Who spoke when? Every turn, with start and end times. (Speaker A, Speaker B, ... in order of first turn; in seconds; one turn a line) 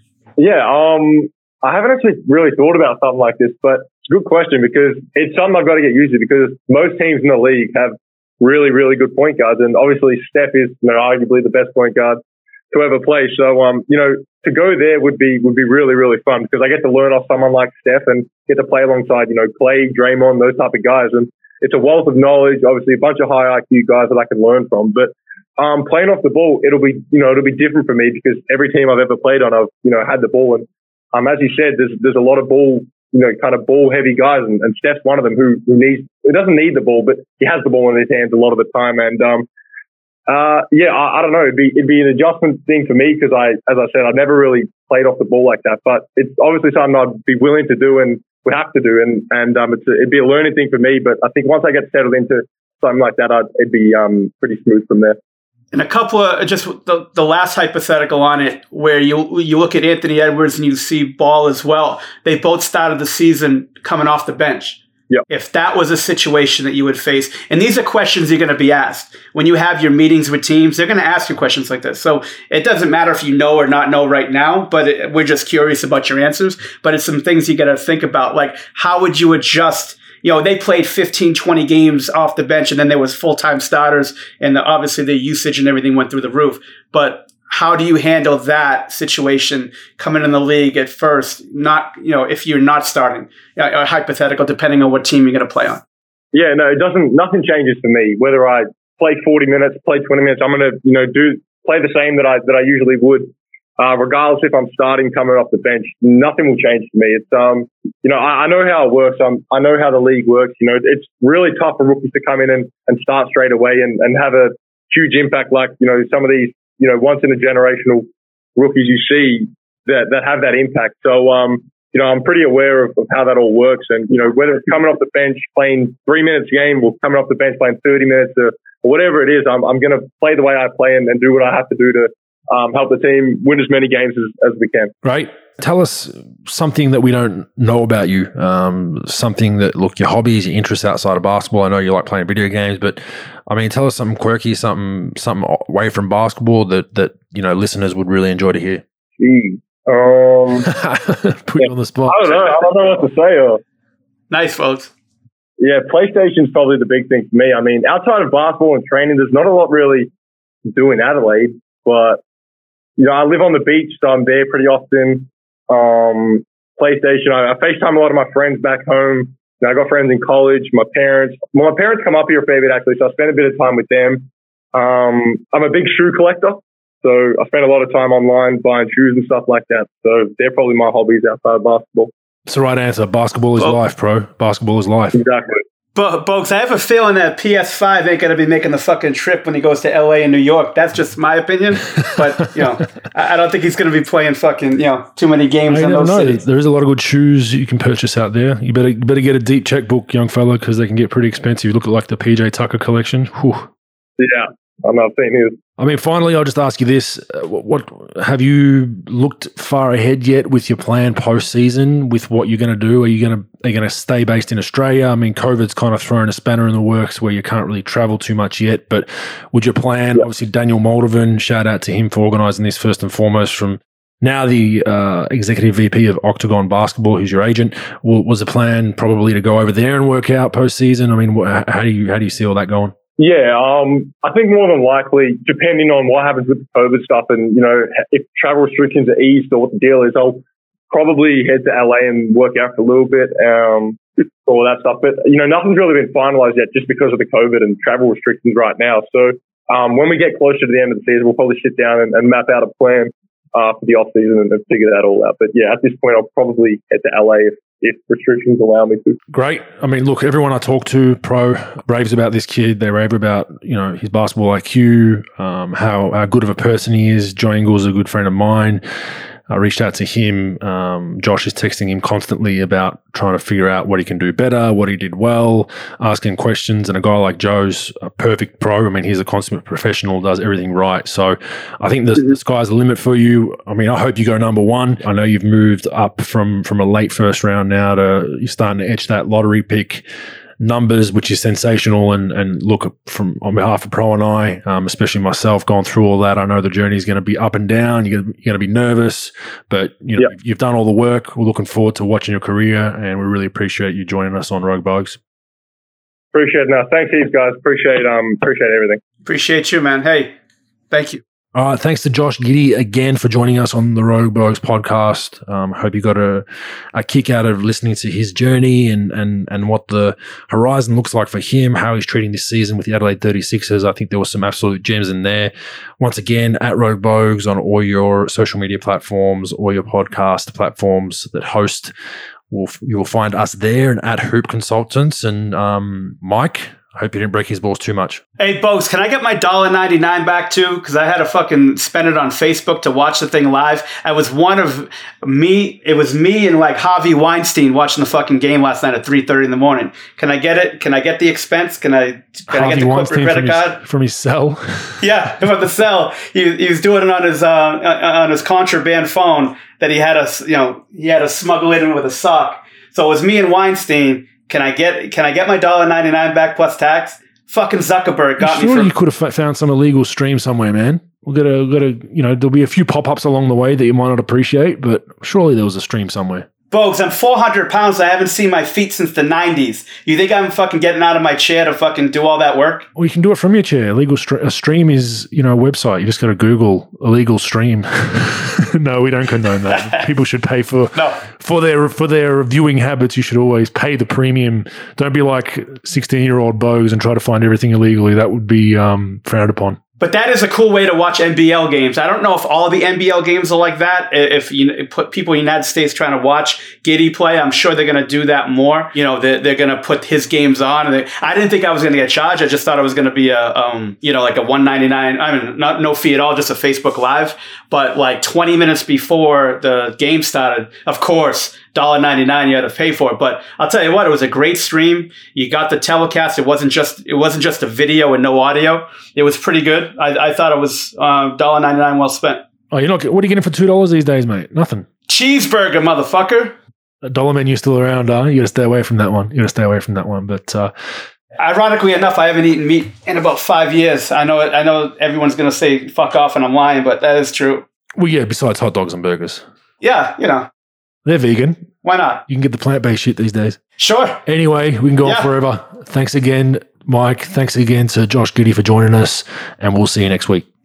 Speaker A: 0.4-12.2
Speaker A: 12.7-39.5
Speaker A: 40.3-55.2
Speaker B: 55.7-95.8
Speaker A: 96.3-134.9
Speaker C: 135.0-148.8
Speaker A: 149.2-150.7
Speaker C: 150.7-152.5
Speaker A: 151.6-153.6
Speaker B: 154.3-154.9
Speaker A: 155.6-160.1
Speaker A: 160.7-162.2
Speaker A: 163.0-182.1
Speaker C: 182.5-185.2
Speaker A: 185.2-185.6
Speaker B: 185.9-196.4
Speaker C: 195.7-203.7
Speaker A: 204.2-205.6
Speaker C: 205.8-232.9
Speaker A: 233.2-259.2
Speaker C: 259.3-268.8
Speaker C: 269.5-290.1
Speaker C: 290.6-305.2
Speaker A: 306.3-309.0
Speaker B: 309.2-310.3
Speaker B: 310.9-311.2
Speaker C: 311.5-331.9
Speaker C: 332.5-338.2
Speaker B: 338.4-353.8
Speaker C: 352.5-355.0
Speaker B: 355.0-368.9
Speaker C: 368.4-376.5
Speaker B: 376.7-382.9
Speaker C: 383.0-399.8
Speaker B: 389.7-390.0
Speaker B: 400.0-432.4
Speaker C: 432.7-434.9
Speaker B: 435.1-436.6
Speaker C: 437.0-440.7
Speaker B: 441.4-447.6
Speaker C: 448.0-449.4
Speaker B: 449.8-450.5
Speaker C: 451.1-451.7
Speaker B: 451.8-452.2
Speaker C: 452.3-453.6
Speaker B: 453.8-454.2
Speaker C: 454.3-460.4
Speaker B: 455.0-455.3